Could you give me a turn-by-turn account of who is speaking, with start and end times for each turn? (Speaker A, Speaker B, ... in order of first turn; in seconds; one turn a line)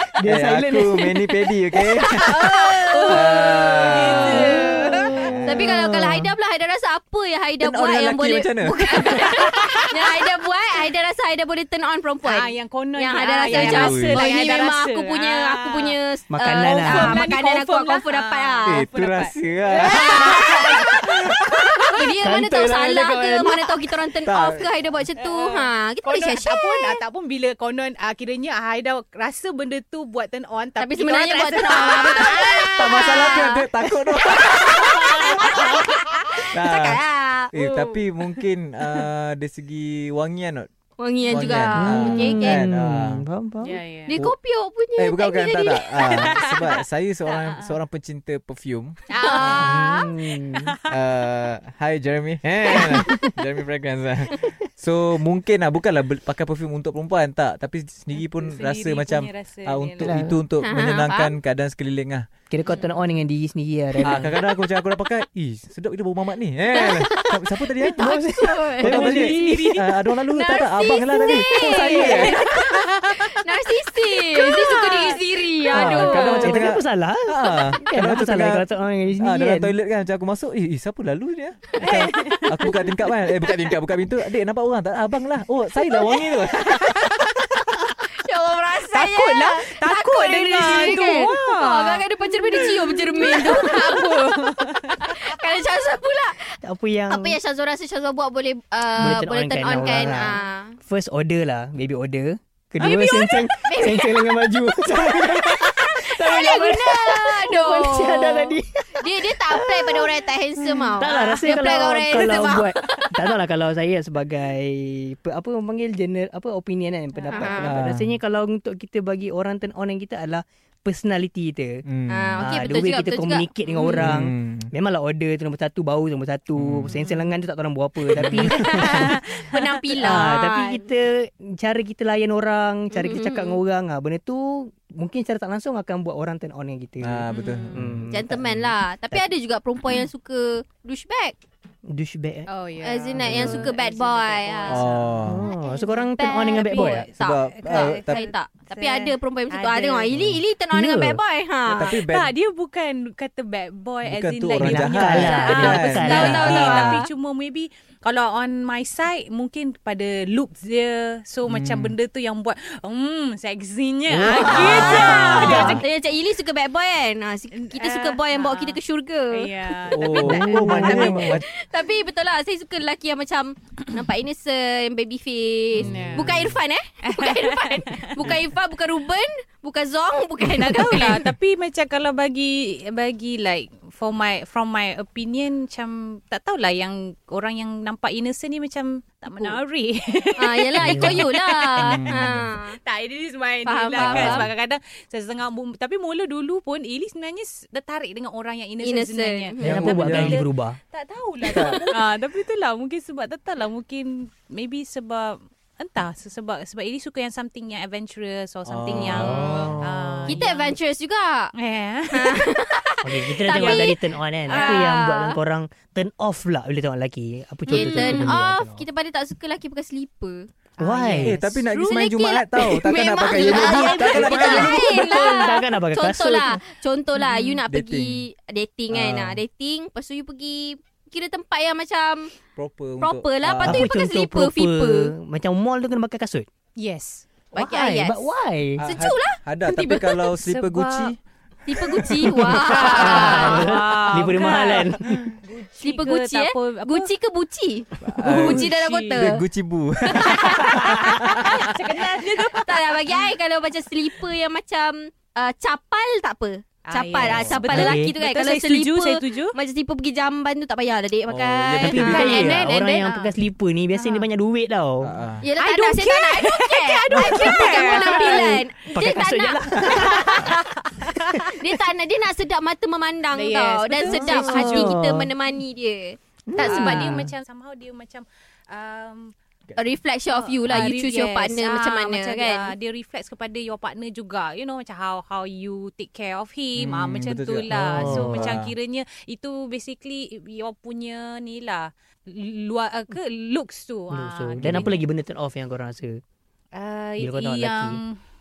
Speaker A: 0.2-1.1
Speaker B: 0.2-5.6
Speaker C: 2.1-5.3
Speaker D: 2.1-4.8
Speaker A: 4.3-6.3
Speaker D: 5.5-18.8
Speaker B: 7.6-9.5
Speaker C: 12.2-16.0
Speaker B: 13.6-14.2
Speaker A: 16.3-17.2
Speaker C: 16.7-21.9
Speaker B: 18.7-20.9
Speaker D: 19.8-21.0
Speaker D: 21.5-27.0
Speaker A: 22.2-23.9
Speaker B: 24.2-24.7
Speaker C: 25.2-33.1
Speaker D: 30.8-37.5
Speaker B: 32.8-35.4
Speaker C: 35.5-36.0
Speaker B: 36.5-37.0
Speaker B: 37.5-40.7
Speaker C: 37.6-38.4
Speaker D: 41.0-42.6
Speaker B: 41.3-43.2
Speaker C: 41.5-41.8
Speaker A: 41.8-43.8
Speaker C: 43.6-44.2
Speaker D: 44.1-46.2
Speaker B: 45.0-49.8
Speaker C: 46.0-47.8
Speaker C: 49.1-50.8
Speaker D: 49.3-49.5
Speaker A: 49.5-50.8
Speaker B: 50.9-62.3
Speaker A: 52.7-53.3
Speaker C: 58.1-60.2
Speaker A: 60.0-60.4
Speaker D: 60.6-61.4
Speaker A: 62.5-64.4
Speaker C: 62.7-63.0
Speaker B: 64.0-68.1
Speaker D: 66.8-67.2
Speaker A: 67.8-69.8
Speaker D: 68.0-69.1
Speaker B: 68.8-72.4
Speaker C: 68.9-69.9
Speaker D: 70.3-76.7
Speaker C: 71.5-73.3
Speaker C: 74.1-76.4
Speaker B: 75.7-87.1
Speaker A: 76.4-79.8
Speaker C: 81.8-83.0
Speaker C: 86.0-87.5
Speaker D: 88.2-94.4
Speaker C: 88.9-95.2
Speaker D: 94.9-96.6
Speaker A: 96.6-97.4
Speaker D: 97.1-100.8
Speaker A: 98.9-110.3
Speaker D: 102.8-104.4
Speaker D: 104.9-113.2
Speaker A: 111.0-121.8
Speaker C: 117.2-117.6
Speaker D: 117.3-117.7
Speaker B: 117.6-118.1
Speaker B: 121.9-122.5
Speaker D: 122.1-124.0
Speaker A: 122.4-129.2
Speaker B: 123.8-124.7
Speaker B: 126.6-127.0
Speaker C: 126.9-127.2
Speaker C: 128.1-130.2
Speaker B: 128.2-128.8
Speaker D: 128.9-130.8
Speaker A: 130.0-139.3
Speaker D: 132.9-133.6
Speaker B: 137.0-138.0
Speaker C: 137.3-137.9
Speaker D: 138.1-141.4
Speaker A: 141.9-142.5
Speaker C: 142.5-150.1
Speaker D: 142.8-144.9
Speaker A: 143.2-143.7
Speaker B: 144.7-145.4
Speaker A: 145.3-147.1
Speaker D: 145.5-151.9
Speaker B: 147.2-148.3
Speaker A: 150.7-151.2
Speaker B: 151.7-152.3
Speaker C: 151.8-165.8
Speaker B: 154.0-157.0
Speaker A: 154.6-156.5
Speaker D: 155.2-157.1
Speaker B: 161.5-161.9
Speaker B: 164.1-165.8
Speaker A: 164.3-165.8
Speaker D: 164.4-169.5
Speaker C: 167.6-168.8
Speaker C: 169.3-171.2
Speaker B: 169.9-171.5
Speaker D: 170.1-181.2
Speaker A: 170.1-171.4
Speaker B: 175.8-176.6
Speaker C: 175.8-176.3
Speaker C: 177.0-178.3
Speaker C: 180.6-210.8
Speaker D: 190.4-192.8
Speaker A: 190.8-191.3
Speaker B: 191.8-192.5
Speaker D: 193.6-194.5
Speaker B: 194.0-194.5
Speaker D: 198.8-199.7
Speaker A: 199.6-200.8
Speaker B: 199.6-200.4
Speaker B: 201.4-201.8
Speaker D: 201.5-201.8
Speaker B: 208.7-209.7
Speaker A: 209.1-210.4
Speaker D: 209.3-209.6
Speaker D: 210.3-211.5
Speaker C: 211.6-212.5
Speaker D: 212.1-214.0
Speaker A: 213.0-218.7
Speaker C: 213.5-214.9
Speaker D: 214.5-215.4
Speaker C: 217.7-218.4
Speaker D: 217.7-220.5
Speaker B: 218.1-218.8
Speaker C: 220.8-221.8
Speaker A: 220.8-221.4
Speaker B: 221.2-225.0
Speaker D: 221.7-232.3
Speaker A: 223.3-226.6
Speaker C: 227.2-227.6
Speaker B: 227.7-228.2
Speaker B: 228.9-229.4
Speaker B: 232.6-233.9
Speaker D: 233.0-235.1
Speaker A: 233.6-236.5
Speaker C: 236.8-237.3
Speaker A: 237.5-238.9
Speaker D: 237.5-238.3
Speaker B: 238.8-241.2
Speaker D: 238.8-240.3
Speaker C: 240.3-241.2
Speaker D: 241.7-243.7
Speaker B: 241.8-243.2
Speaker A: 242.2-245.3
Speaker C: 242.6-247.1
Speaker D: 245.8-249.4
Speaker B: 248.0-251.6
Speaker C: 248.2-249.3
Speaker D: 250.1-251.5
Speaker C: 250.4-253.3
Speaker D: 252.5-262.4
Speaker C: 256.9-259.6
Speaker B: 257.2-257.6
Speaker A: 257.6-258.2
Speaker B: 261.3-262.6
Speaker A: 261.8-265.1
Speaker C: 261.9-263.4
Speaker C: 263.9-264.3
Speaker B: 265.0-265.5
Speaker D: 265.4-270.5
Speaker C: 265.5-268.6
Speaker A: 267.3-270.5
Speaker C: 269.8-271.6
Speaker D: 271.5-277.1
Speaker C: 273.3-274.9
Speaker A: 274.0-275.3
Speaker A: 276.5-277.3
Speaker C: 276.6-279.3
Speaker D: 279.8-282.7
Speaker C: 280.3-295.0
Speaker B: 286.8-288.7
Speaker A: 287.7-288.5
Speaker A: 294.1-296.2
Speaker B: 294.6-294.9
Speaker C: 296.7-298.2
Speaker A: 297.2-298.0